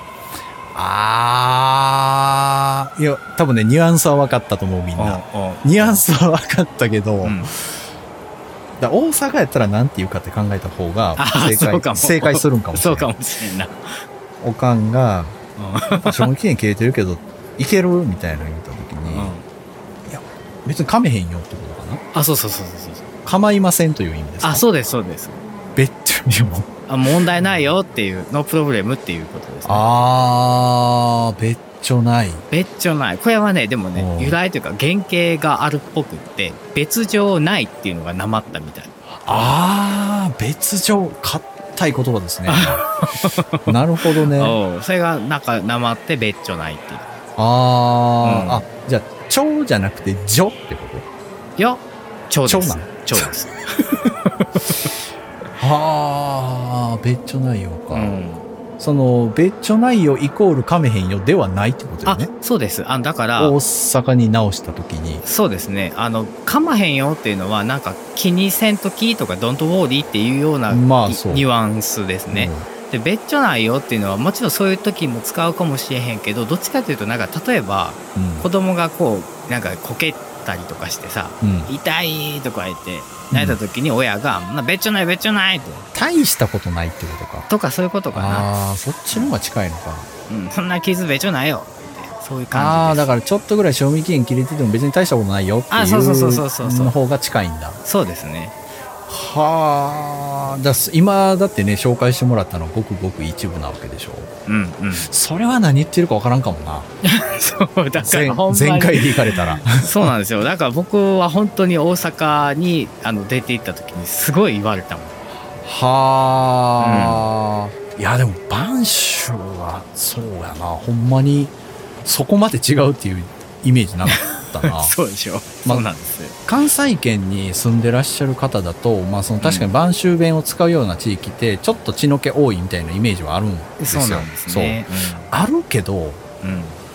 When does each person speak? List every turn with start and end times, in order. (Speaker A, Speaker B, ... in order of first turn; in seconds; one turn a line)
Speaker A: 0.7-7.5
Speaker B: 5.0-6.1
Speaker B: 7.2-7.5
Speaker A: 8.8-13.1
Speaker B: 11.2-14.0
Speaker A: 14.4-15.4
Speaker B: 15.6-16.3
Speaker A: 16.0-19.4
Speaker B: 19.1-19.4
Speaker A: 20.1-22.0
Speaker B: 22.1-23.1
Speaker A: 23.2-24.6
Speaker B: 24.4-25.4
Speaker A: 25.8-26.7
Speaker B: 26.9-29.9
Speaker A: 29.6-32.4
Speaker B: 32.5-39.5
Speaker A: 34.0-34.4
Speaker A: 39.2-42.8
Speaker B: 42.5-47.1
Speaker A: 43.7-44.6
Speaker A: 47.4-51.1
Speaker B: 48.2-48.7
Speaker B: 51.6-53.6
Speaker A: 52.5-53.3
Speaker A: 55.6-58.2
Speaker B: 57.9-58.5
Speaker A: 58.8-62.3
Speaker B: 62.1-63.6
Speaker A: 63.4-65.2
Speaker B: 65.2-85.9
Speaker A: 70.7-71.5
Speaker A: 72.3-72.7
Speaker A: 78.2-78.5
Speaker A: 81.4-81.7
Speaker A: 83.3-83.6
Speaker A: 85.9-87.5
Speaker B: 87.5-88.5
Speaker A: 88.1-90.1
Speaker B: 90.3-93.1
Speaker A: 92.5-97.8
Speaker B: 95.7-97.0
Speaker B: 97.8-98.5
Speaker A: 99.1-104.3
Speaker B: 104.5-105.1
Speaker A: 104.9-106.9
Speaker B: 107.0-115.2
Speaker A: 108.0-110.1
Speaker A: 115.6-124.9
Speaker B: 116.8-117.3
Speaker B: 124.1-126.4
Speaker A: 126.5-136.2
Speaker B: 129.4-129.7
Speaker B: 133.8-135.3
Speaker B: 136.4-136.8